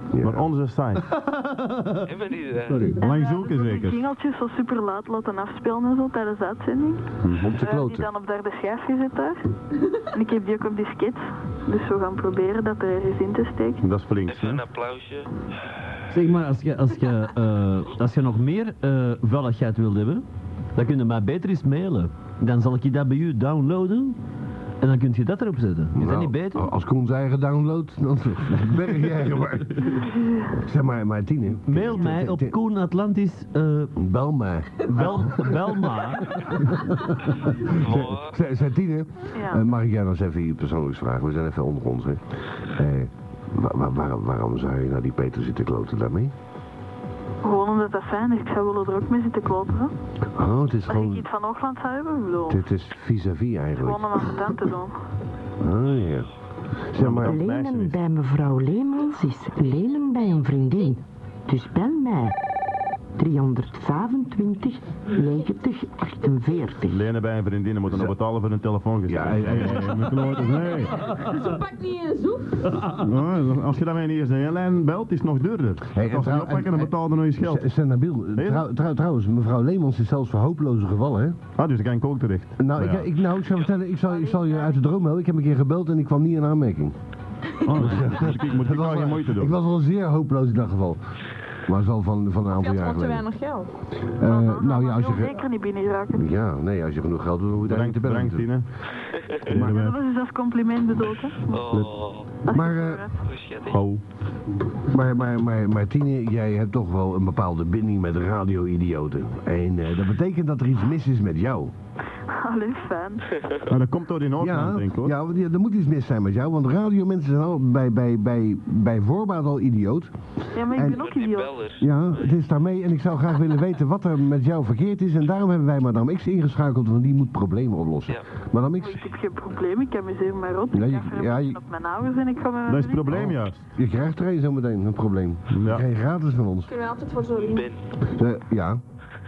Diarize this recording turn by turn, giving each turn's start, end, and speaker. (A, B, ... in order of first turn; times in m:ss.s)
0:00.1-0:00.5 A
0:00.2-0:01.0 B
0:01.1-0:02.1 C
0:02.1-0:02.9 D
0:03.0-0:04.0 B
0:03.0-0:09.5 E
0:07.2-0:07.5 B
0:07.4-0:08.1 A
0:10.1-0:13.8 E
0:13.8-0:14.6 B
0:14.3-0:15.3 D
0:16.1-0:20.2 C
0:20.8-0:24.2 C
0:24.8-0:26.7 C
0:26.0-0:32.6 A
0:29.8-0:30.5 E
0:31.7-0:33.9 C
0:34.0-0:46.3 A
0:34.9-0:36.6 C
0:37.7-0:38.3 D
0:39.4-0:39.6 E
0:47.4-0:49.9 E
0:50.2-0:51.3 A
0:50.9-0:52.6 E
0:52.5-0:54.5 A
0:53.8-0:55.0 E
0:55.6-0:56.3 A
0:56.9-0:57.4 A
0:57.0-0:58.0 B
0:57.2-1:02.4 F
1:03.2-1:07.0 F
1:06.9-1:11.1 B
1:09.1-1:10.1 A
1:10.5-1:12.8 G
1:12.8-1:17.6 B
1:15.9-1:21.4 A
1:18.4-1:18.6 B
1:21.6-1:23.1 B
1:22.6-1:27.0 A
1:24.1-1:24.8 E
1:27.6-1:29.5 B
1:27.7-1:31.0 A
1:31.7-1:33.3 A
1:32.5-1:33.7 G
1:34.2-1:35.4 A
1:34.2-1:36.2 E
1:36.1-1:38.5 A
1:37.7-1:38.7 B
1:39.5-1:40.0 B
1:39.5-1:39.8 A
1:39.5-1:41.6 E
1:41.5-1:42.3 D
1:42.5-1:43.2 E
1:42.5-1:43.0 A
1:43.2-1:43.8 D
1:43.7-1:44.0 B
1:44.9-1:51.7 A
1:52.3-1:53.2 E
1:53.4-1:53.6 D
1:53.7-1:55.1 B
1:54.4-2:00.1 A
2:00.5-2:01.6 E
2:00.7-2:01.0 A
2:00.7-2:02.3 D
2:01.8-2:09.0 A
2:08.8-2:13.3 E
2:10.7-2:11.6 A
2:12.7-2:13.6 B
2:13.1-2:16.7 A
2:15.5-2:15.8 B
2:16.7-2:17.7 G
2:17.4-2:17.8 D
2:18.1-2:18.8 A